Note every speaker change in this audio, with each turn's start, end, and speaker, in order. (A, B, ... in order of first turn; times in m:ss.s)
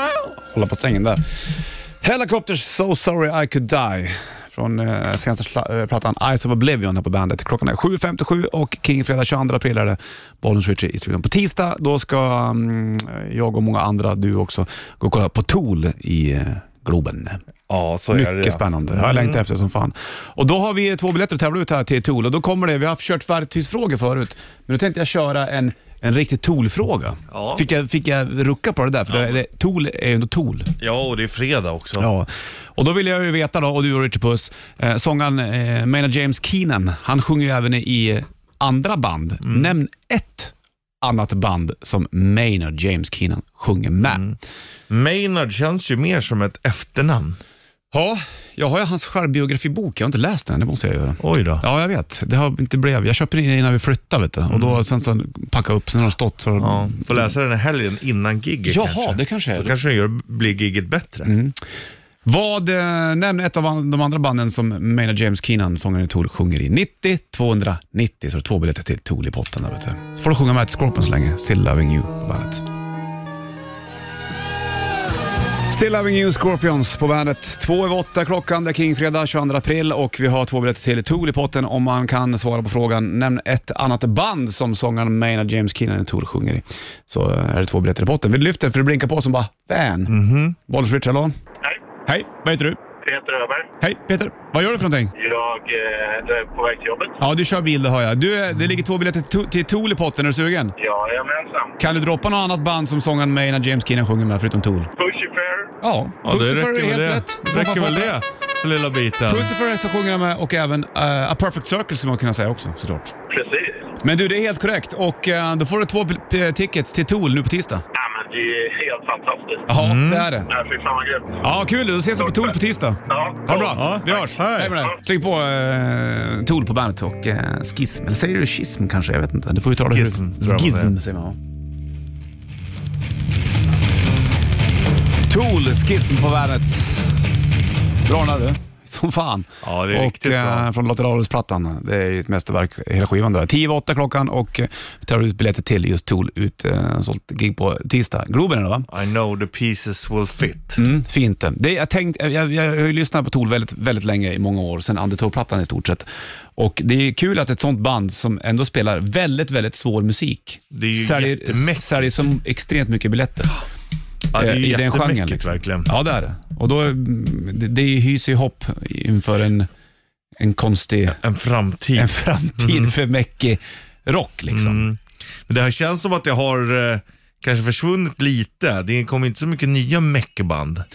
0:00.4-0:17.4 A
0:17.7-0:19.4 B
0:18.1-0:30.7 A
0:27.3-0:27.6 B
0:29.1-0:29.4 B
0:30.8-0:32.1 B
0:32.0-0:44.2 A
0:39.4-0:39.7 B
0:44.0-0:44.4 B
0:44.9-0:47.4 B
0:47.9-0:57.3 A
0:51.2-0:51.6 B
0:54.5-0:54.8 B
0:56.6-1:01.3 B
0:58.7-0:59.8 A
1:01.2-1:01.6 A
1:02.2-1:12.6 A
1:15.7-1:30.2 A
1:30.1-1:30.6 B
1:30.7-1:31.4 A
1:32.1-1:32.8 A
1:33.0-1:33.7 C
1:33.8-1:35.1 A
1:35.2-1:37.2 C
1:37.2-1:40.7 A
1:40.8-1:41.8 C
1:41.8-1:44.9 A
1:45.0-1:45.7 C
1:45.8-1:48.1 A
1:46.2-1:49.5 B
1:49.3-1:53.1 A
1:53.3-1:53.9 C
1:54.0-1:57.8 A
1:58.0-1:59.6 C
1:59.7-2:00.5 A
1:59.8-2:00.3 B
2:00.5-2:01.4 C
2:01.4-2:11.4 A
2:02.2-2:03.8 C
2:03.7-2:04.8 B
2:09.7-2:11.0 B
2:15.3-2:17.1 A
2:18.0-2:28.9 A
2:19.6-2:20.7 B
2:28.9-2:30.8 B
2:30.8-2:43.5 A
2:40.7-2:42.1 B
2:44.3-2:45.9 B
2:44.4-2:49.7 A
2:50.4-2:51.2 A
2:51.2-2:52.9 B
2:52.0-2:54.8 A
2:54.5-3:00.9 B